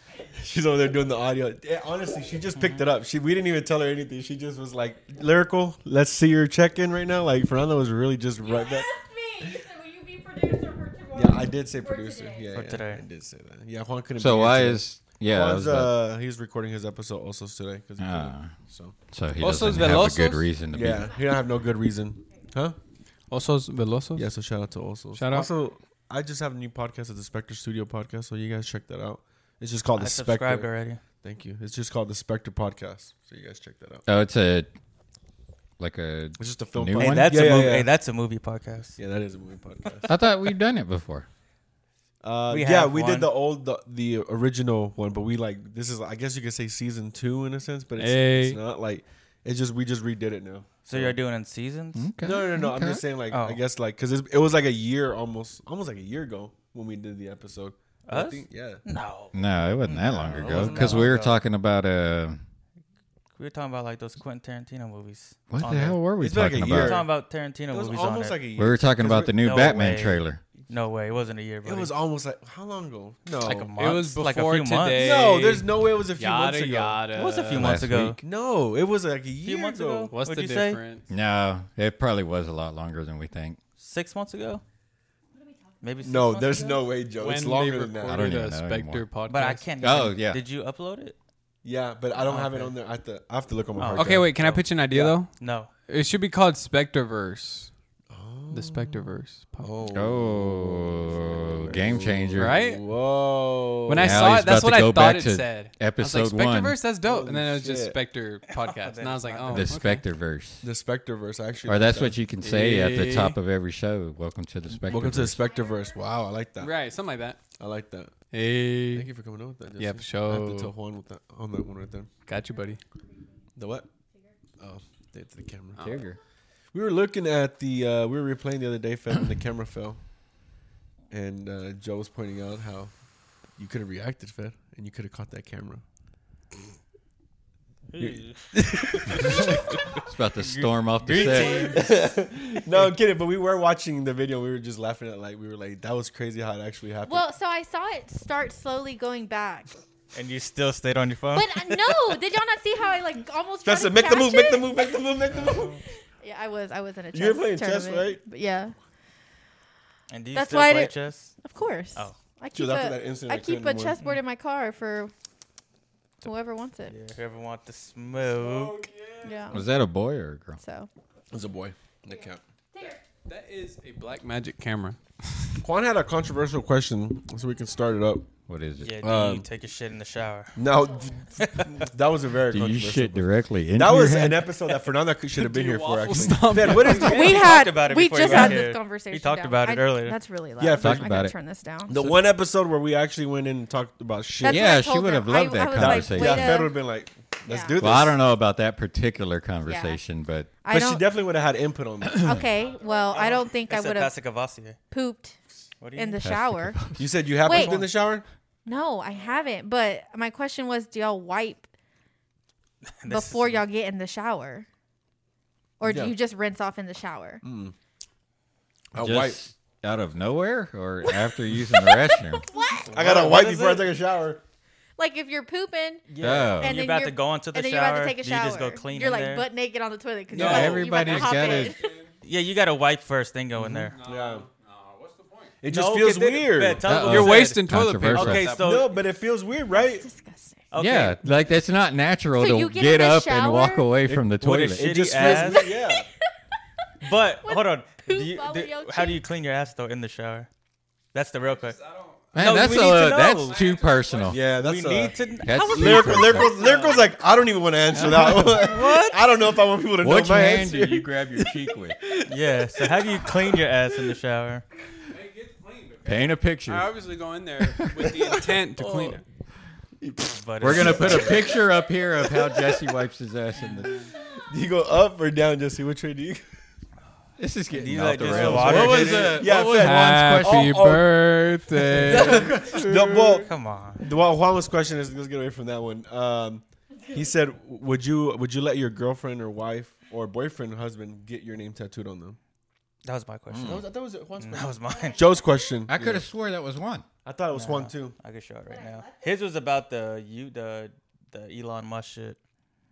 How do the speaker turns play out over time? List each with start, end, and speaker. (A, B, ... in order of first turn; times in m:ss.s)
0:00.3-0:08.9 A
0:08.4-0:12.5 B
0:11.1-0:19.0 A
0:12.5-0:13.0 C
0:14.2-0:16.0 D
0:18.0-0:18.6 D
0:19.1-0:21.1 D
0:19.4-0:20.5 E
0:20.7-0:22.8 A
0:20.9-0:21.2 B
0:23.3-0:24.3 E
0:24.2-0:30.7 A
0:25.2-0:25.5 E
0:30.0-0:31.0 C
0:31.2-0:34.0 A
0:34.0-0:34.7 D
0:35.8-0:37.5 D
0:36.4-0:37.9 A
0:37.0-0:39.0 C
0:39.0-0:40.2 A
0:40.0-0:41.3 D
0:42.2-0:51.2 A
0:42.5-0:43.3 C
0:48.0-0:48.6 E
0:50.8-0:52.1 C
0:51.9-0:53.0 D
0:52.2-0:58.8 A
0:53.3-0:53.6 C
0:58.1-1:01.4 C
0:59.3-1:02.4 D
1:00.3-1:01.1 A
1:03.4-1:06.0 C
1:05.5-1:07.0 D
1:06.2-1:07.1 A
1:06.7-1:08.4 C
1:07.7-1:09.4 A
1:08.6-1:10.4 D
1:09.4-1:11.9 C
1:11.6-1:13.7 A
1:13.4-1:15.2 C
1:13.8-1:17.9 E
1:14.9-1:17.0 A
1:17.1-1:18.2 C
1:17.5-1:18.2 D
1:18.2-1:20.1 A
1:19.4-1:20.8 C
1:20.1-1:21.1 E
1:21.1-1:23.6 D
1:23.8-1:24.6 C
1:25.3-1:26.8 B
1:25.8-1:26.9 C
1:26.0-1:28.3 A
1:27.2-1:29.6 E
1:28.1-1:29.0 D
1:29.3-1:31.2 C
1:29.8-1:30.4 D
1:31.6-1:34.3 A
1:32.1-1:32.8 C
1:33.8-1:35.7 C
1:33.9-1:37.7 E
1:34.9-1:35.2 A
1:38.1-1:44.3 A
1:38.5-1:39.8 E
1:39.9-1:42.6 D
1:42.4-1:42.8 E
1:43.9-1:50.0 E
1:43.9-1:46.8 D
1:47.0-1:48.0 A
1:48.5-1:49.7 C
1:49.5-1:50.7 D
1:50.6-1:52.2 A
1:51.6-1:55.4 D
1:52.4-1:53.4 E
1:54.9-1:56.7 A
1:55.4-1:55.8 B
1:56.6-1:57.4 E
1:57.6-1:58.1 A
1:58.3-1:59.1 E
1:58.9-2:02.1 A
1:59.8-2:00.7 E
2:02.3-2:02.8 E
2:02.4-2:03.4 B
2:03.6-2:03.9 A
2:04.1-2:04.4 B
2:04.6-2:05.9 A
2:05.8-2:06.0 E
2:05.8-2:06.2 D
2:06.7-2:10.0 A
2:11.1-2:12.9 A
2:13.6-2:15.8 A
2:17.9-2:22.1 C
2:18.0-2:19.7 A
2:19.2-2:21.8 D
2:21.1-2:21.5 E
2:21.1-2:27.3 A
2:22.7-2:22.9 C
2:27.0-2:29.7 B
2:30.1-2:31.7 C
2:31.3-2:35.1 B
2:33.6-2:35.8 A
2:35.4-2:35.8 C
2:36.2-2:38.7 B
2:37.1-2:38.2 A
2:40.1-2:41.4 C
2:40.3-2:45.1 B
2:42.5-2:44.0 A
2:46.2-2:46.9 B
2:46.9-2:48.8 C
2:48.2-2:49.6 E
2:49.2-2:49.6 B
2:49.5-2:50.6 D
2:50.6-2:50.9 B
2:51.3-2:52.4 A
2:52.1-2:53.0 B
2:53.2-2:55.6 E
2:55.6-2:58.3 A
2:58.5-2:59.1 D
2:58.8-3:00.6 C
2:59.0-2:59.5 A
3:00.6-3:07.3 A
3:00.7-3:01.2 B
3:01.4-3:01.9 C
3:02.5-3:04.4 D
3:05.3-3:07.5 E
3:06.9-3:12.0 B
3:07.0-3:10.2 C
3:10.6-3:11.1 A
3:10.8-3:11.4 D
3:11.9-3:14.8 A
3:14.4-3:16.7 B
3:14.4-3:16.7 D
3:15.8-3:18.2 A
3:17.5-3:17.8 B
3:17.8-3:20.5 D
3:19.6-3:20.0 B
3:20.6-3:21.0 B
3:20.7-3:22.5 A
3:22.1-3:24.2 B
3:22.5-3:24.8 C
3:24.9-3:25.4 B
3:25.8-3:26.2 C
3:25.9-3:27.9 B
3:26.2-3:27.2 D
3:27.0-3:28.2 A
3:27.4-3:27.9 C
3:28.6-3:31.7 B
3:32.8-3:33.6 C
3:33.1-3:34.6 B
3:35.8-3:37.4 B
3:35.8-3:36.1 A
3:37.4-3:37.7 A
3:38.9-3:39.4 A
3:39.0-3:42.4 D
3:42.1-3:42.9 B
3:42.9-3:43.9 C
3:42.9-3:44.4 A
3:45.0-3:52.0 B
3:46.1-3:49.4 C
3:46.2-3:46.8 D
3:50.3-3:50.8 A
3:50.3-3:51.8 D
3:50.3-3:52.1 E
3:52.2-3:54.0 C
3:53.6-3:55.5 E
3:54.0-3:54.5 A
3:55.6-3:56.9 A
3:55.7-3:57.6 C
3:56.8-3:58.5 D
3:57.0-3:58.8 E
3:58.1-3:59.0 C
3:58.6-4:00.1 A
3:59.7-4:00.7 B
4:00.7-4:01.2 C
4:00.8-4:05.4 D
4:02.4-4:04.0 B
4:04.0-4:06.1 A
4:04.4-4:05.7 C
4:05.3-4:06.0 B
4:07.0-4:10.5 C
4:07.4-4:09.2 B
4:11.1-4:11.8 C
4:11.4-4:14.4 E
4:12.3-4:14.4 D
4:12.3-4:13.6 C
4:14.3-4:23.6 A
4:14.5-4:17.1 C
4:15.4-4:16.6 D
4:17.9-4:19.2 C
4:18.0-4:18.4 D
4:20.0-4:22.0 D
4:22.2-4:24.6 C
4:25.1-4:29.2 E
4:26.0-4:26.9 D
4:27.9-4:29.2 A
4:30.0-4:32.9 A
4:30.4-4:31.4 C
4:30.6-4:34.1 D
4:34.1-4:36.5 A
4:37.4-4:40.7 D
4:37.7-4:39.4 C
4:37.9-4:41.4 A
4:38.4-4:43.4 E
4:41.9-4:52.4 A
4:42.3-4:42.7 D
4:43.3-4:44.0 C
4:53.0-4:53.8 C
4:53.5-4:53.8 D
4:53.6-4:56.2 A
4:54.4-4:55.4 C
4:54.9-4:55.7 B
4:55.9-4:57.0 D
4:57.2-4:58.1 A
4:57.5-5:02.4 C
4:58.6-4:59.4 B